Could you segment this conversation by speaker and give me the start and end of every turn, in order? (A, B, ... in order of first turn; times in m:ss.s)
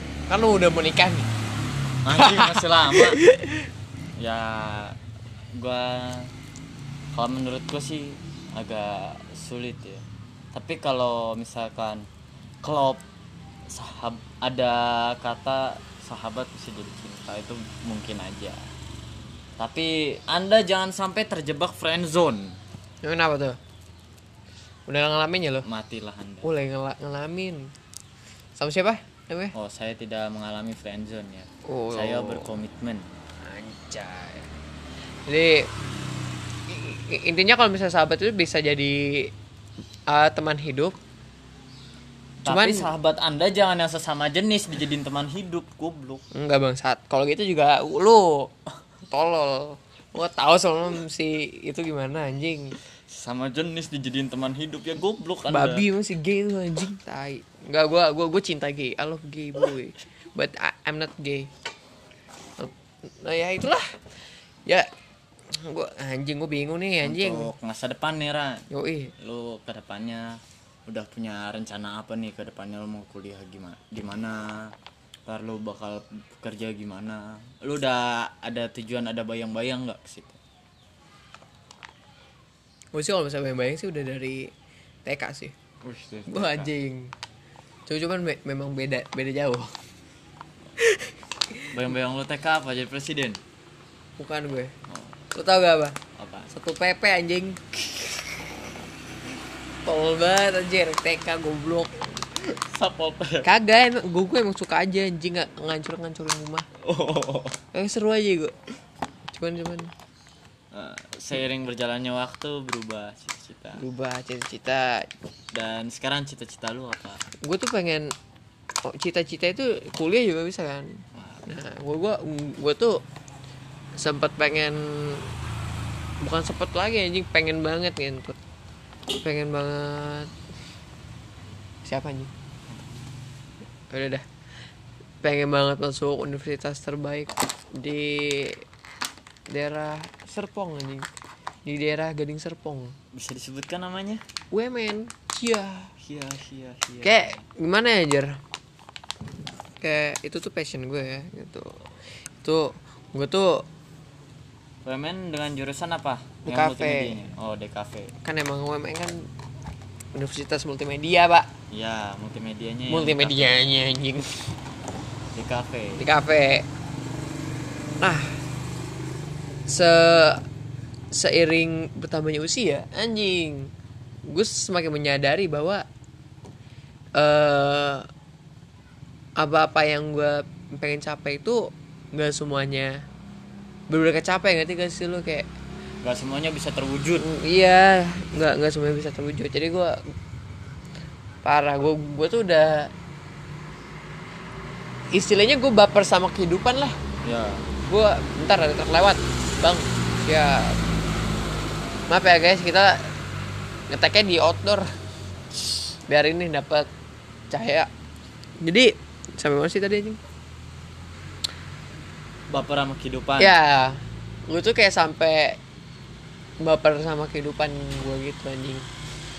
0:00.3-0:01.3 A
0:02.0-0:03.2 B
0:02.1-0:03.7 A
0:04.2-0:05.0 B
0:05.5-0:06.3 B
0:07.1-0:12.1 B
0:12.6-0:13.0 B
0:13.7-0:18.7 B
0:19.6-0:22.6 B
0:23.0-0:23.6 A
0:24.9-0:25.6 A
0:25.6-0:26.5 B
0:26.4-0:27.7 A
0:28.6-0:29.5 A
0:29.5-0:33.1 B
0:31.6-0:32.5 A
0:33.4-0:34.5 A
0:35.2-0:35.7 A
0:36.7-0:39.3 A
0:40.1-0:41.0 A
0:42.4-0:42.9 A
0:42.4-0:46.2 B
0:46.3-0:48.5 A
0:49.1-0:52.7 A
0:53.1-0:55.8 B
0:55.5-1:01.5 A
1:02.6-1:04.9 A
1:05.5-1:07.5 A
1:07.0-1:14.7 B
1:08.7-1:09.1 A
1:15.2-1:20.4 B
1:22.9-1:24.5 A
1:25.0-1:25.5 A
1:25.8-1:26.7 B
1:26.3-1:27.1 A
1:27.9-1:29.8 A
1:30.8-1:31.6 A
1:31.7-1:33.4 B
1:34.2-1:34.7 A
1:34.9-1:35.1 B
1:35.3-1:36.0 A
1:36.1-1:36.5 B
1:36.5-1:38.4 A
1:39.8-1:42.1 A
1:42.4-1:43.5 B
1:43.4-1:46.7 A
1:46.8-1:47.6 B
1:47.7-1:48.5 A
1:49.3-1:49.9 A
1:50.7-1:53.8 B
1:53.7-1:55.1 A
1:55.5-1:57.3 B
1:57.4-1:58.1 A
1:58.8-2:03.0 A
2:01.1-2:01.4 B
2:04.0-2:05.3 A
2:06.2-2:08.4 A
2:09.1-2:10.3 A
2:11.8-2:12.3 A
2:12.7-2:13.0 B
2:13.9-2:14.2 A
2:15.2-2:18.6 A
2:19.5-2:21.1 A
2:21.6-2:23.0 A
2:23.1-2:24.2 B
2:24.5-2:25.9 A
2:26.0-2:27.4 B
2:27.0-2:28.4 A
2:29.8-2:33.7 A
2:34.8-2:38.1 B
2:36.4-2:37.3 A
2:38.2-2:39.3 A
2:40.1-2:41.5 A
2:41.7-2:43.6 B
2:42.9-2:44.6 A
2:45.3-2:46.0 B
2:46.0-2:46.7 A
2:48.0-2:48.4 A
2:49.7-2:50.4 A
2:51.1-2:53.7 A
2:54.2-2:55.8 A
2:57.2-2:58.1 A
2:59.4-3:03.0 A
3:03.9-3:05.5 A
3:06.0-3:07.3 B
3:07.2-3:10.1 A
3:11.4-3:12.9 A
3:15.1-3:17.0 A
3:17.2-3:17.7 B
3:17.8-3:20.8 A
3:22.1-3:23.1 A
3:23.9-3:24.9 A
3:25.9-3:26.9 A
3:27.5-3:27.9 A
3:28.6-3:30.2 A
3:32.5-3:33.5 B
3:33.4-3:35.6 A
3:36.6-3:38.9 A